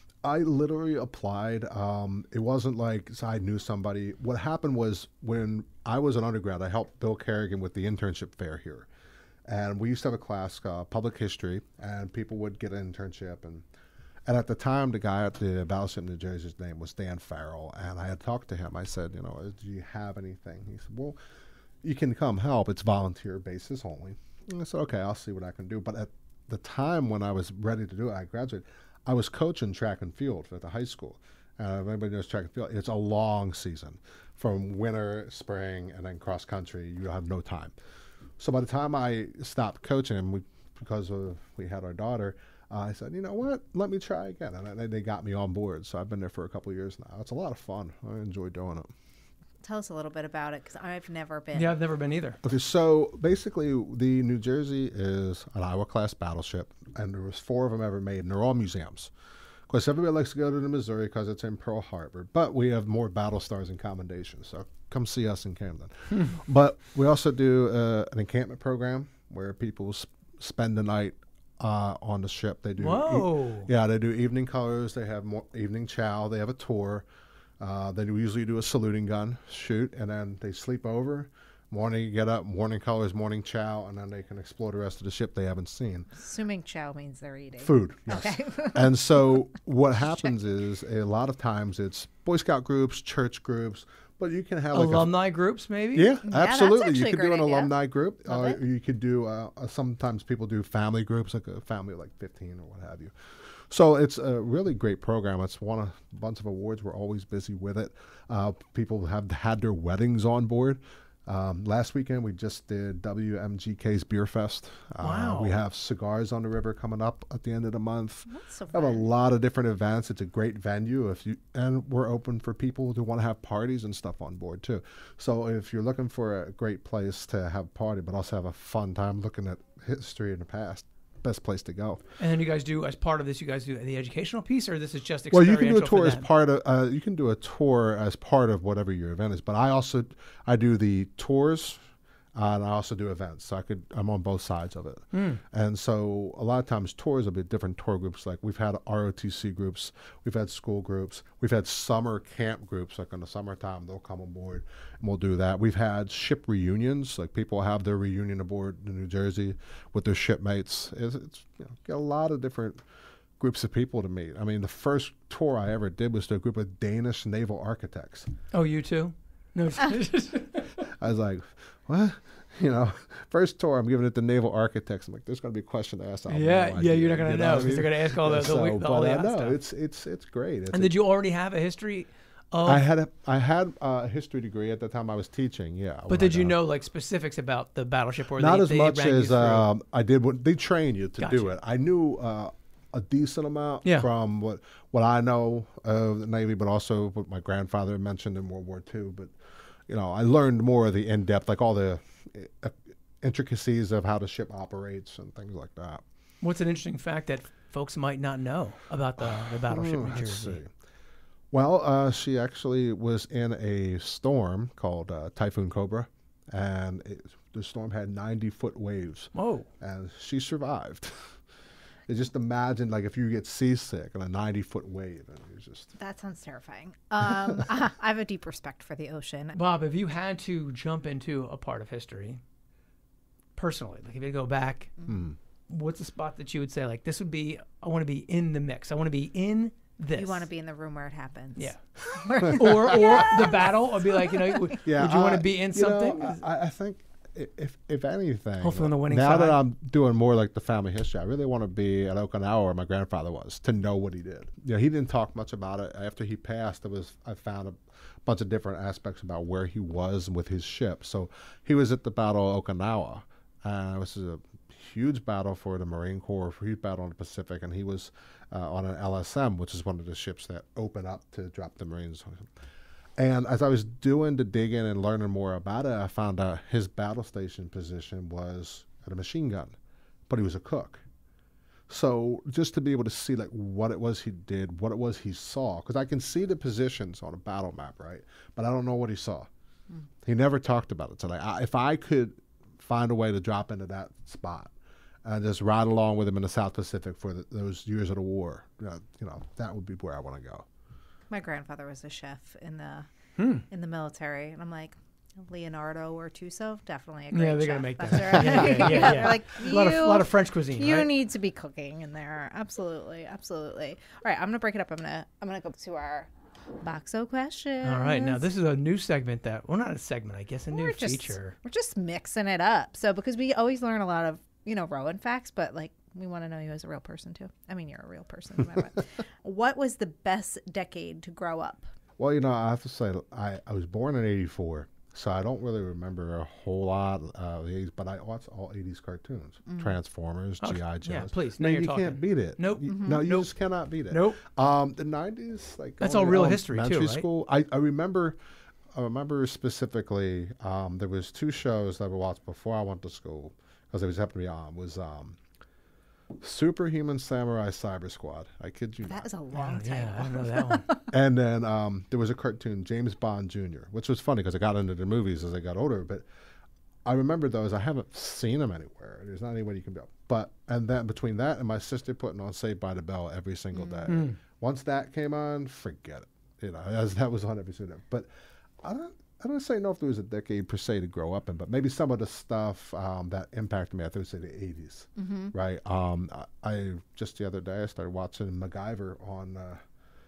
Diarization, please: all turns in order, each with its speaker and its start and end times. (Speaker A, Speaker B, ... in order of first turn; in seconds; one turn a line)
Speaker A: 0.2-8.9
Speaker A: 9.5-13.7
Speaker A: 14.2-21.2
Speaker A: 21.8-37.7
Speaker A: 38.4-48.9
Speaker B: 49.6-51.8
Speaker C: 51.5-52.4
Speaker A: 52.4-59.1
Speaker A: 59.7-77.0
Speaker C: 66.1-66.4
Speaker C: 72.8-73.7
Speaker A: 77.6-86.1
Speaker B: 86.1-88.9
Speaker A: 87.6-95.1
Speaker C: 94.7-96.1
Speaker A: 95.9-132.0
Speaker B: 96.2-97.7
Speaker B: 98.3-98.6
Speaker C: 115.0-115.5
Speaker B: 118.3-119.0
Speaker C: 132.2-136.3
Speaker A: 135.3-141.8
Speaker A: 142.3-162.8
Speaker C: 145.1-145.4
Speaker A: 163.4-168.3
Speaker C: 168.5-170.8
Speaker A: 170.9-180.9
Speaker C: 176.3-179.6
Speaker C: 180.7-182.8
Speaker A: 182.6-186.5
Speaker C: 186.1-189.7
Speaker A: 188.3-199.3
Speaker C: 191.2-191.5
Speaker C: 193.8-194.1
Speaker A: 199.9-206.0
Speaker C: 206.4-210.6
Speaker A: 209.2-210.7
Speaker A: 211.5-221.4
Speaker C: 219.3-219.7
Speaker A: 222.1-225.9
Speaker B: 226.0-229.6
Speaker A: 227.3-227.6
Speaker C: 229.5-232.4
Speaker C: 233.6-234.9
Speaker A: 235.1-235.4
Speaker C: 235.7-240.4
Speaker B: 240.2-244.6
Speaker C: 242.4-246.4
Speaker A: 242.5-243.3
Speaker A: 244.8-272.5
Speaker C: 248.6-249.6
Speaker A: 273.2-279.8
Speaker A: 280.3-281.0
Speaker A: 281.9-289.5
Speaker A: 290.2-294.7
Speaker A: 295.2-300.7
Speaker B: 301.3-303.1
Speaker C: 303.4-303.7
Speaker B: 303.7-316.3
Speaker C: 307.3-311.1
Speaker A: 308.4-308.7
Speaker B: 316.8-318.4
Speaker C: 317.8-321.6
Speaker B: 320.7-331.9
Speaker A: 332.2-348.4
Speaker B: 339.7-340.0
Speaker C: 340.6-343.5
Speaker B: 342.9-343.2
Speaker C: 344.1-344.4
Speaker C: 346.0-347.2
Speaker A: 348.9-355.4
Speaker A: 356.4-359.3
Speaker B: 359.0-361.1
Speaker C: 359.5-360.9
Speaker A: 361.1-366.2
Speaker A: 367.0-378.3
Speaker B: 373.7-374.1
Speaker C: 374.1-374.4
Speaker A: 378.8-389.8
Speaker B: 385.2-385.5